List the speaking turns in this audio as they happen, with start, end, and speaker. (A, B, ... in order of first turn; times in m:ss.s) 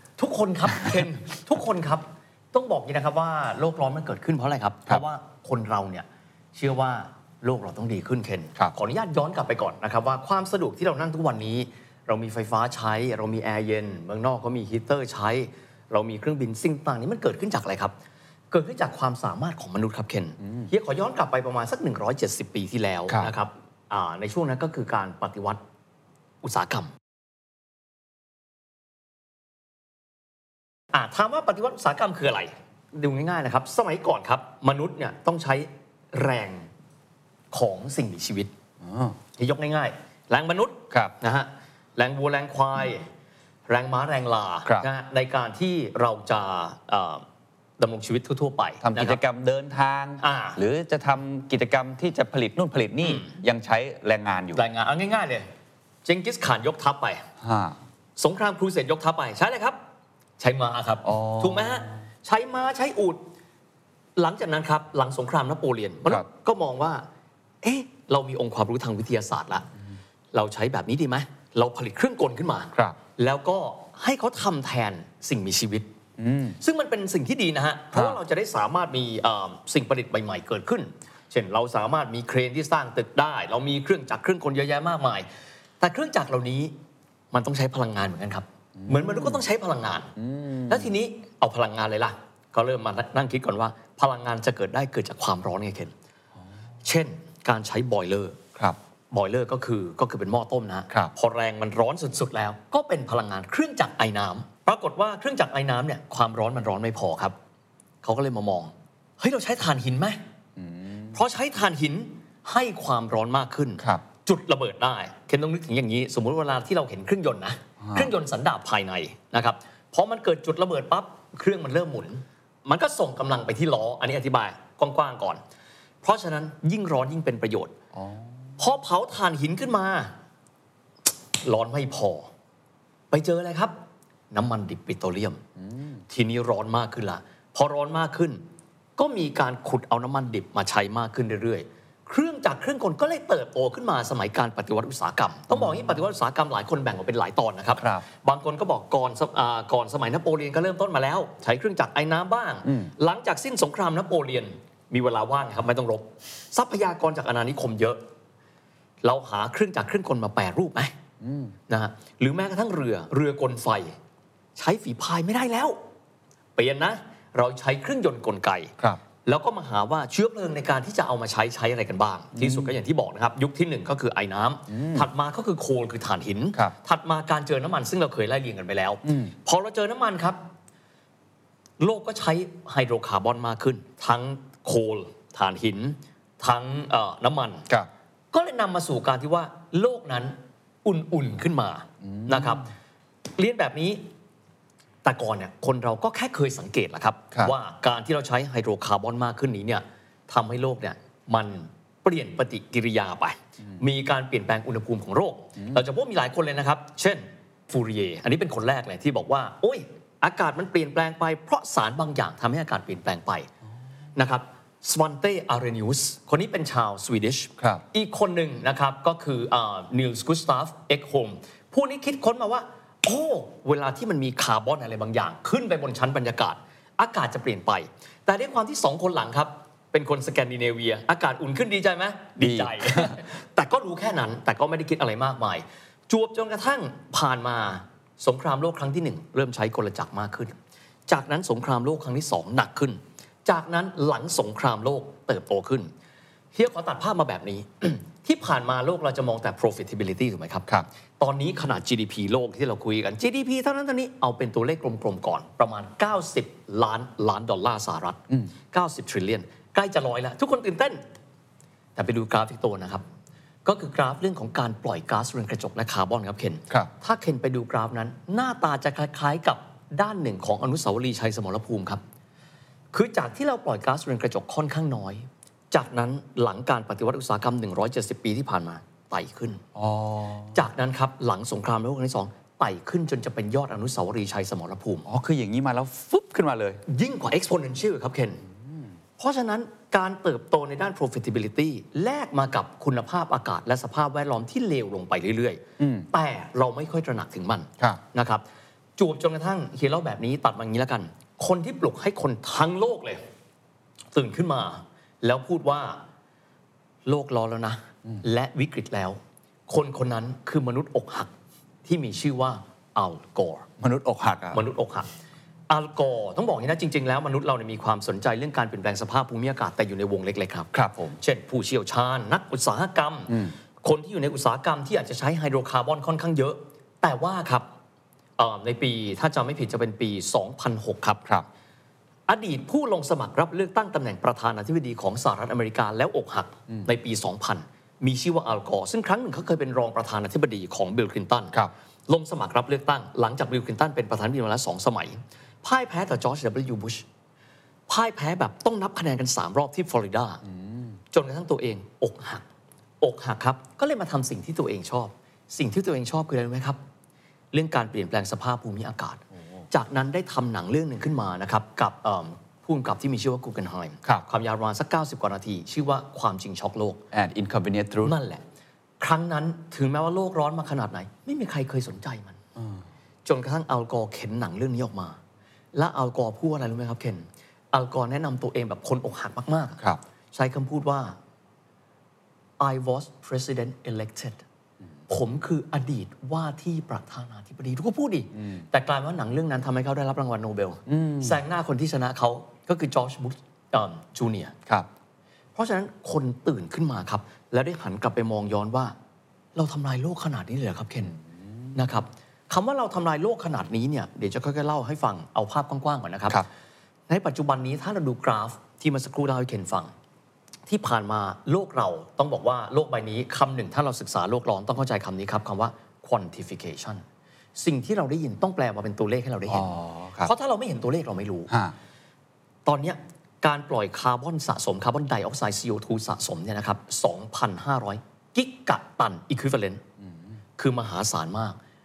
0:00.2-0:17.9 A
0:00.8-0:01.0 B
0:18.5-0:25.6 A
0:26.4-0:26.9 A
0:30.9-0:36.7 A
0:37.5-0:38.5 A
0:38.8-0:39.2 B
0:39.4-0:43.1 A
0:43.7-0:47.2 A
0:47.8-0:49.2 A
0:48.8-0:54.6 B
0:50.2-0:50.6 A
0:54.5-0:55.5 A
0:56.0-0:57.3 A
0:57.4-0:57.8 B
0:58.2-0:59.8 A
1:00.4-1:03.2 A
1:01.0-1:01.9 B
1:04.2-1:07.1 A
1:07.6-1:09.7 A
1:10.3-1:15.9 A
1:16.2-1:16.6 B
1:16.6-1:25.3 A
1:17.9-1:18.2 B
1:25.8-1:26.8 A
1:27.3-1:30.1 A
1:28.8-1:29.4 B
1:30.2-1:30.9 B
1:30.7-1:35.9 A
1:36.8-1:38.4 A
1:39.1-1:47.4 A
1:48.0-1:50.2 A
1:50.6-1:51.2 B
1:51.1-2:05.4 A
1:57.8-1:58.1 B
2:06.0-2:07.8 A
2:07.9-2:08.3 B
2:08.6-2:10.1 A
2:11.4-2:12.3 A
2:13.1-2:13.8 A
2:14.3-2:15.4 A
2:15.6-2:16.0 B
2:16.1-2:18.4 A
2:19.0-2:38.0 A
2:27.8-2:28.0 B
2:32.6-2:32.9 B
2:39.0-2:40.9 A
2:41.2-2:41.5 B
2:41.7-2:44.0 A
2:44.6-2:45.8 A
2:46.6-3:00.4 A
2:52.4-2:52.7 B
2:54.7-2:55.1 B
2:59.0-2:59.3 B
3:01.8-3:07.7 A
3:08.3-3:12.7 A
3:12.0-3:12.6 B
3:13.3-3:14.1 A
3:15.0-3:33.5 A
3:34.2-4:05.9 A
3:52.4-3:53.2 B
4:06.5-4:10.7 A
4:11.2-4:21.0 A
4:22.0-4:23.0 A
4:23.6-4:32.0 A
4:32.9-4:39.6 A
4:39.8-4:40.6 B
4:40.5-4:45.1 A
4:45.1-4:46.8 B
4:46.9-4:48.4 A
4:49.2-4:58.4 A
4:55.8-4:56.1 B
4:59.0-5:03.2 A
5:04.1-5:06.0 A
5:07.1-5:11.3 A
5:11.8-5:13.7 A
5:13.8-5:14.6 B
5:14.5-5:15.1 A
5:15.7-5:27.7 A
5:20.7-5:21.2 B
5:28.4-5:31.2 A
5:32.3-5:41.6 A
5:42.1-5:47.0 A
5:47.9-5:50.4 A
5:50.5-5:51.0 B
5:51.1-5:52.5 A
5:53.0-5:56.8 A
5:57.5-6:07.0 A
6:07.1-6:08.2 B
6:08.0-6:08.4 A
6:09.0-6:12.4 A
6:12.6-6:12.8 B
6:13.2-6:15.2 A
6:15.7-6:19.8 A
6:20.3-6:21.2 A
6:22.6-6:24.4 A
6:25.1-6:34.5 A
6:30.9-6:31.4 B
6:35.6-6:38.9 A
6:39.6-6:41.2 A
6:41.8-6:46.5 A
6:47.1-6:49.9 A
6:50.7-6:57.0 A
6:57.6-6:59.7 A
6:59.5-7:00.3 B
7:00.2-7:01.5 A
7:01.5-7:01.8 B
7:02.6-7:09.8 A
7:10.0-7:10.3 B
7:10.6-7:11.6 A